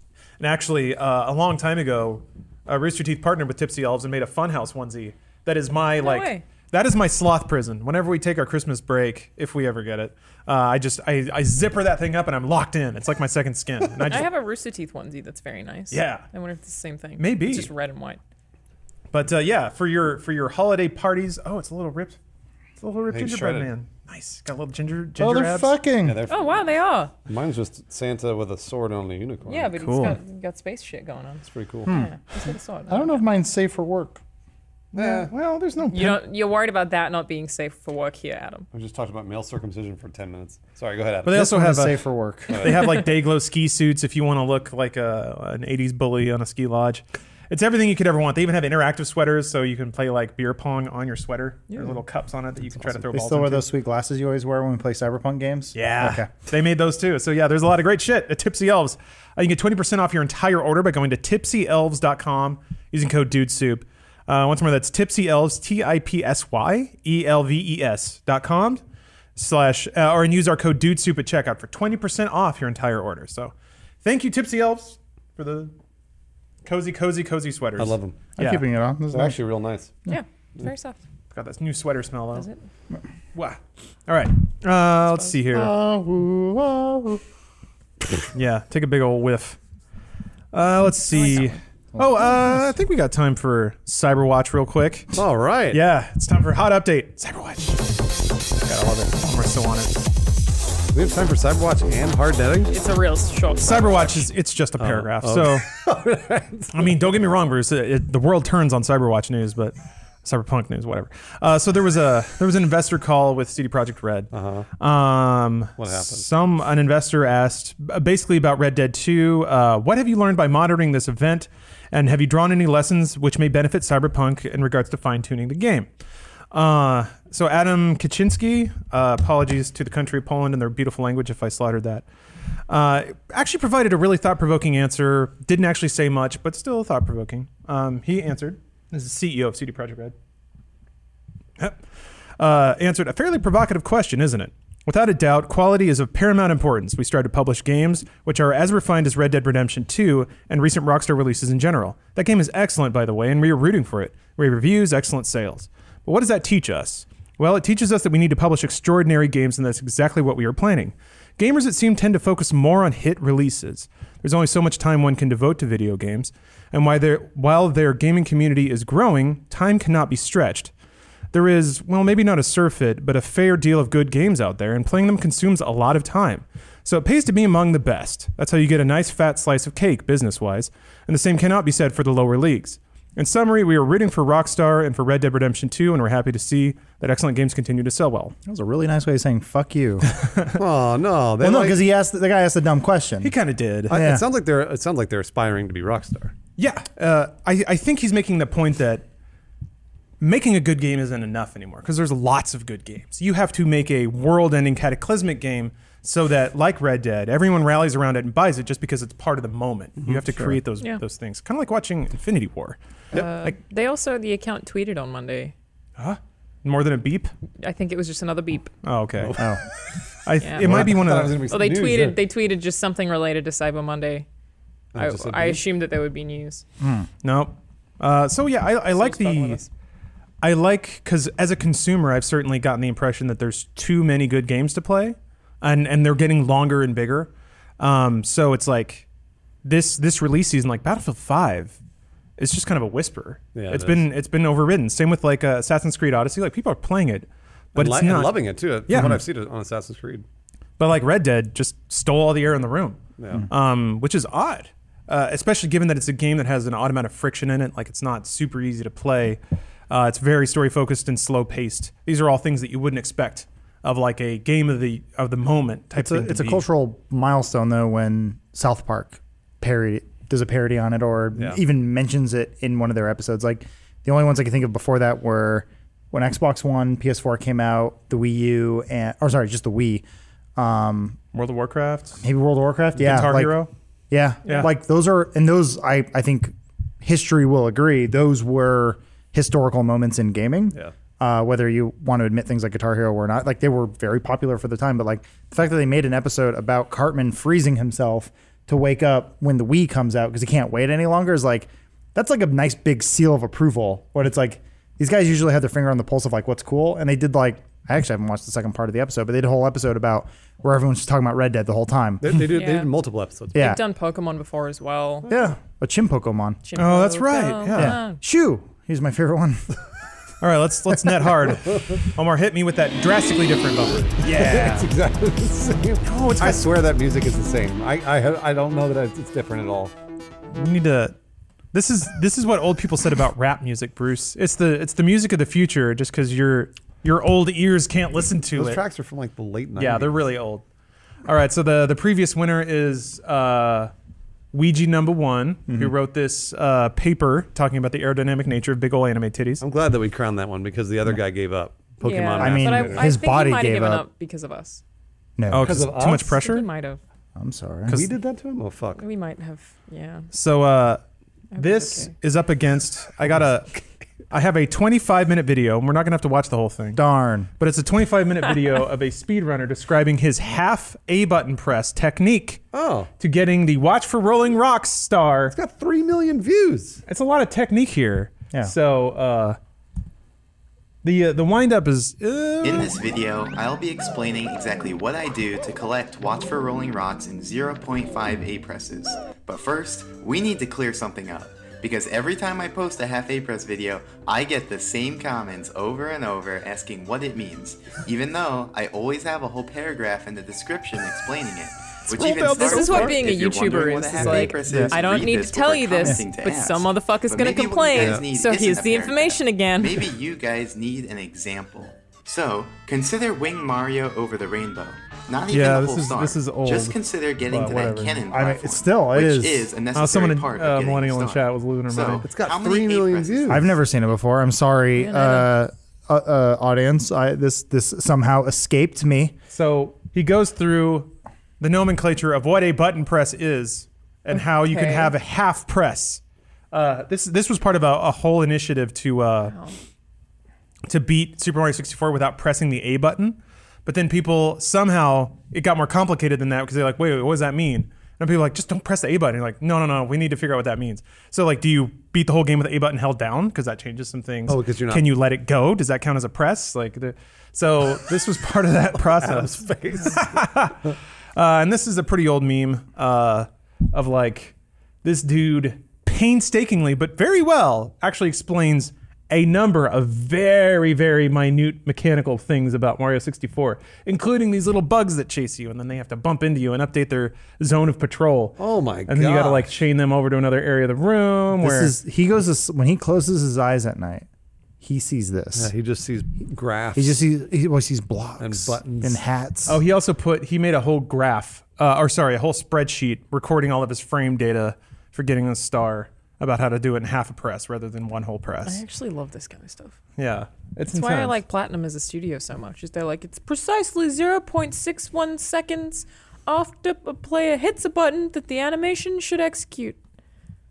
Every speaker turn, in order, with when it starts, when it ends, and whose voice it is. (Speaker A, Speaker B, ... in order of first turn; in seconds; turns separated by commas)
Speaker A: 0.4-14.3, Speaker B: 6.0-6.5, Speaker B: 14.1-18.2, Speaker A: 15.9-16.2, Speaker A: 17.2-17.7, Speaker A: 19.1-22.2, Speaker A: 22.8-25.8, Speaker C: 23.1-23.7, Speaker D: 25.2-26.2, Speaker C: 26.0-26.6, Speaker B: 26.3-27.1, Speaker C: 27.3-29.7, Speaker B: 29.5-33.2, Speaker A: 29.8-30.2, Speaker C: 31.5-31.9, Speaker D: 31.9-32.1, Speaker D: 32.9-34.2, Speaker A: 34.9-36.2, Speaker C: 35.0-35.3, Speaker B: 35.9-38.7, Speaker C: 38.7-41.5, Speaker A: 41.2-53.7, Speaker D: 41.3-42.7, Speaker C: 42.5-43.0, Speaker D: 53.1-56.3, Speaker A: 55.8-68.8, Speaker A: 69.4-75.7, Speaker A: 76.6-78.6, Speaker C: 77.8-78.3, Speaker D: 78.4-79.4, Speaker C: 79.1-80.0, Speaker B: 80.1-81.0, Speaker A: 81.3-82.5, Speaker A: 83.3-85.7, Speaker D: 85.5-87.2, Speaker A: 88.3-89.6, Speaker A: 90.5-95.2, Speaker B: 91.1-91.5, Speaker D: 92.0-92.7, Speaker C: 95.1-95.8, Speaker A: 95.7-97.9, Speaker A: 98.6-100.0, Speaker C: 100.9-102.7, Speaker B: 102.7-104.2, Speaker A: 103.6-105.7, Speaker C: 104.8-107.0, Speaker A: 106.7-125.9, Speaker C: 114.3-114.7, Speaker C: 115.8-116.3, Speaker A: 126.5-132.1, Speaker A: 132.7-140.1, Speaker A: 142.4-170.7, Speaker A: 171.3-188.3, Speaker D: 188.5-190.1, Speaker A: 190.2-190.5, Speaker C: 190.6-191.8, Speaker D: 191.4-193.3, Speaker A: 193.2-193.9, Speaker C: 193.9-196.4, Speaker D: 193.9-194.3, Speaker A: 196.6-199.0, Speaker A: 200.2-212.8, Speaker D: 210.1-210.6, Speaker B: 213.1-215.5, Speaker A: 216.0-217.3, Speaker B: 217.6-218.7, Speaker A: 218.8-219.4, Speaker D: 219.4-219.6, Speaker A: 220.2-221.4, Speaker C: 220.6-222.2, Speaker B: 221.5-224.3, Speaker C: 224.9-225.6, Speaker B: 224.9-226.6, Speaker D: 226.8-227.1, Speaker A: 227.2-229.6, Speaker B: 228.9-229.7, Speaker A: 230.4-239.1, Speaker A: 239.6-241.8, Speaker A: 242.4-249.2, Speaker C: 243.6-244.1, Speaker C: 247.8-250.2, Speaker A: 250.8-266.6, Speaker C: 253.2-253.5, Speaker D: 265.9-280.1, Speaker D: 280.6-281.2, Speaker A: 281.3-282.2, Speaker D: 282.2-312.4, Speaker A: 282.9-283.7, Speaker C: 312.2-313.7, Speaker B: 312.5-312.9, Speaker D: 313.6-313.8, Speaker B: 313.6-315.3, Speaker D: 315.3-316.6, Speaker B: 316.6-318.2, Speaker A: 316.8-318.0, Speaker D: 317.7-319.7, Speaker A: 320.4-324.8, Speaker D: 320.9-321.2, Speaker C: 321.7-321.9, Speaker D: 324.2-324.9, Speaker C: 324.3-329.9, Speaker A: 326.1-326.7, Speaker A: 330.5-331.2, Speaker A: 331.7-338.8, Speaker C: 338.6-340.2, Speaker A: 339.8-340.6, Speaker A: 341.3-343.9, Speaker A: 344.5-349.6, Speaker D: 345.7-345.9, Speaker C: 349.6-353.1, Speaker B: 352.0-354.8, Speaker D: 352.4-354.1, Speaker D: 355.4-356.0, Speaker A: 355.5-356.7, Speaker C: 355.6-356.4, Speaker B: 356.3-357.0, Speaker D: 357.4-358.0, Speaker C: 357.9-359.0, Speaker B: 359.0-360.3, Speaker A: 360.3-361.0, Speaker B: 361.5-362.1, Speaker A: 361.6-363.8, Speaker A: 364.3-367.0, Speaker D: 367.0-367.5, Speaker A: 367.6-372.6, Speaker C: 372.7-373.1, Speaker A: 373.2-375.6, Speaker C: 375.5-377.0, Speaker A: 377.1-379.6, Speaker A: 381.0-382.9, Speaker E: 382.6-423.7, Speaker A: 402.1-403.4, Speaker B: 402.6-410.1, Speaker D: 404.6-405.0, Speaker C: 407.9-408.3, Speaker A: 415.5-417.0, Speaker A: 417.5-418.2, Speaker D: 418.3-419.7, Speaker A: 419.9-422.3, Speaker C: 422.2-423.7, Speaker D: 423.5-429.4, Speaker B: 424.9-425.5, Speaker A: 429.5-439.6, Speaker B: 434.5-435.1, Speaker B: 439.5-439.8, Speaker A: 440.9-460.8, Speaker C: 454.5-455.1, Speaker C: 458.9-460.4, Speaker A: 461.4-481.9, Speaker C: 478.6-479.8, Speaker D: 481.6-484.3, Speaker D: 484.8-485.7, Speaker C: 485.6-487.2, Speaker D: 487.0-489.8, Speaker C: 488.4-489.2, Speaker A: 489.7-498.8, Speaker B: 498.7-500.0, Speaker A: 500.2-501.4, Speaker B: 500.9-510.0